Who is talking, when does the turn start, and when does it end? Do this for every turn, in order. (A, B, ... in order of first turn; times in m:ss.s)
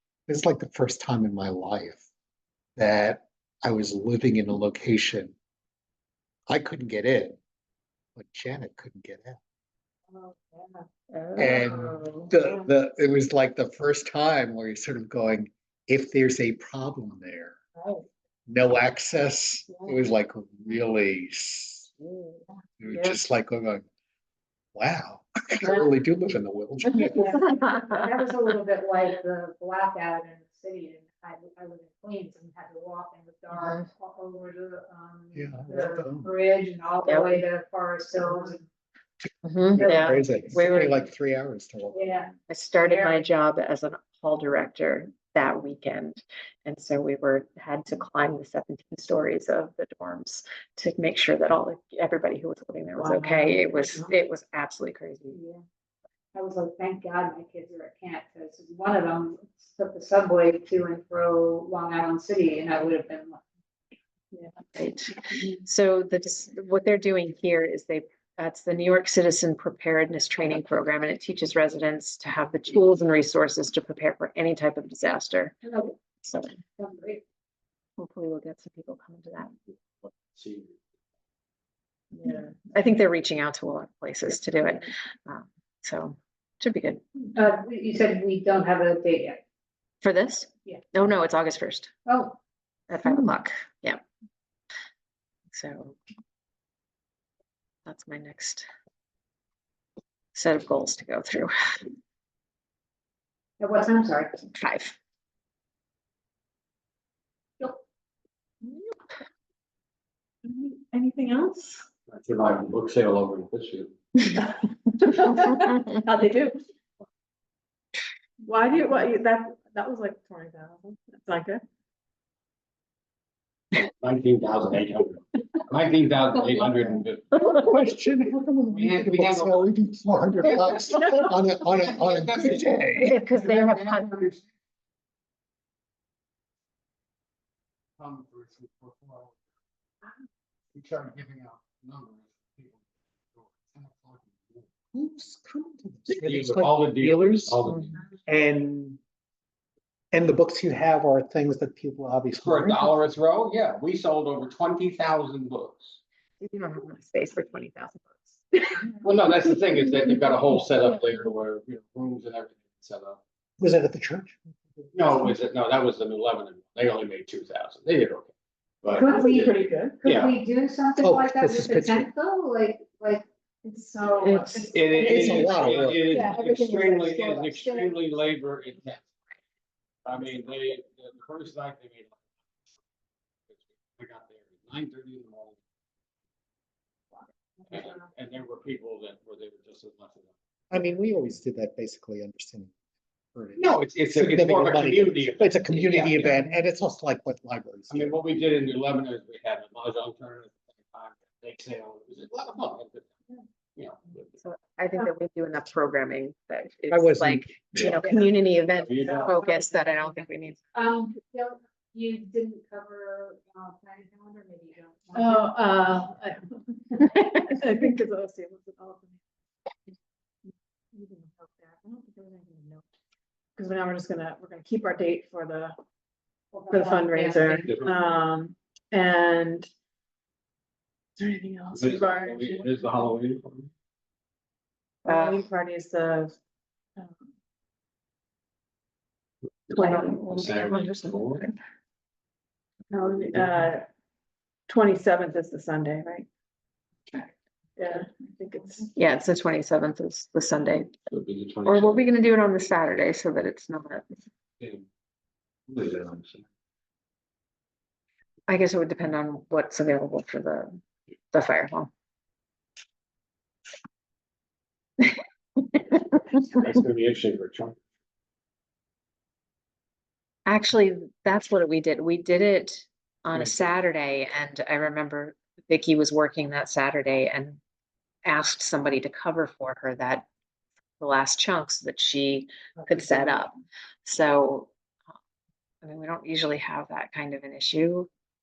0:00.3-0:02.0 A
0:02.8-0:05.4 A
0:06.5-0:07.4 A
0:08.2-0:09.4 A
0:10.1-0:10.8 B
0:11.1-0:12.3 C
0:11.4-0:17.6 A
0:17.8-0:18.0 B
0:18.5-0:22.0 A
0:22.8-0:23.9 A
0:22.9-0:23.2 C
0:24.8-0:27.4 A
0:27.0-0:38.6 D
0:35.3-0:36.3 A
0:37.0-0:37.4 C
0:39.4-0:41.0 C
0:39.8-0:42.3 A
0:39.8-0:40.8 D
0:41.9-0:42.3 D
0:42.5-0:55.4 C
0:42.8-0:43.1 D
0:53.0-0:54.2 B
0:55.3-0:55.6 D
0:56.3-1:03.4 D
1:04.7-1:15.6 C
1:15.6-1:16.0 D
1:16.2-1:16.6 C
1:16.8-1:17.2 D
1:18.0-1:19.5 C
1:20.0-1:20.8 E
1:22.1-1:27.2 C
1:27.3-1:29.4 D
1:30.0-1:31.9 C
1:32.1-1:32.4 D
1:32.9-1:34.0 C
1:35.5-1:36.0 C
1:37.9-1:38.7 C
1:40.3-1:41.5 C
1:43.6-1:44.4 D
1:44.5-1:45.0 C
1:50.4-1:51.9 B
1:52.1-1:53.9 E
1:54.5-1:56.6 B
1:58.4-2:01.6 B
2:03.8-2:07.3 E
2:07.4-2:13.2 A
2:08.7-2:09.7 E
2:11.8-2:14.4 E
2:13.0-2:14.3 C
2:18.0-2:19.4 E
2:20.7-2:22.8 E
2:23.3-2:24.7 E
2:24.9-2:27.6 A
2:26.1-2:28.0 E
2:28.2-2:29.0 A
2:30.1-2:32.9 A
2:32.4-2:36.0 E
2:36.4-2:39.0 C
2:39.0-2:43.2 E
2:43.6-2:44.5 A
2:44.9-2:48.3 E
2:48.8-2:50.4 E
2:48.9-2:58.0 D
2:49.1-2:50.0 B
2:51.0-2:52.1 A
2:54.2-2:54.7 C
2:54.7-2:59.0 E
2:55.0-2:56.2 A
2:56.2-2:56.4 B
3:00.0-3:02.2 E
3:03.5-3:05.6 E
3:07.7-3:10.3 E
3:10.7-3:12.7 A
3:13.3-3:18.2 A
3:13.6-3:16.5 E
3:17.9-3:23.2 E
3:23.8-3:24.4 E
3:24.4-3:30.6 C
3:26.9-3:27.9 A
3:28.8-3:29.4 E
3:29.1-3:29.7 D
3:30.7-3:35.6 D
3:35.1-3:39.2 B
3:40.5-3:42.8 B
3:43.6-3:45.8 B
3:46.5-3:47.7 D
3:46.7-3:49.7 B
3:47.6-3:47.9 E
3:51.2-3:52.7 B
3:51.7-3:53.7 E
3:55.0-3:56.4 B
3:55.1-3:55.4 C
3:59.7-4:01.5 E
3:59.7-4:00.2 B
3:59.8-4:01.6 C
4:02.9-4:03.8 B
4:04.7-4:06.3 B
4:07.8-4:08.9 B
4:09.0-4:11.0 C
4:11.1-4:12.1 E
4:11.6-4:14.1 C
4:14.6-4:14.8 E
4:15.7-4:16.4 E
4:18.5-4:20.8 C
4:21.3-4:21.9 C
4:26.0-4:27.8 E
4:30.5-4:37.6 C
4:38.2-4:40.3 C
4:41.0-4:44.7 C
4:45.8-4:48.1 C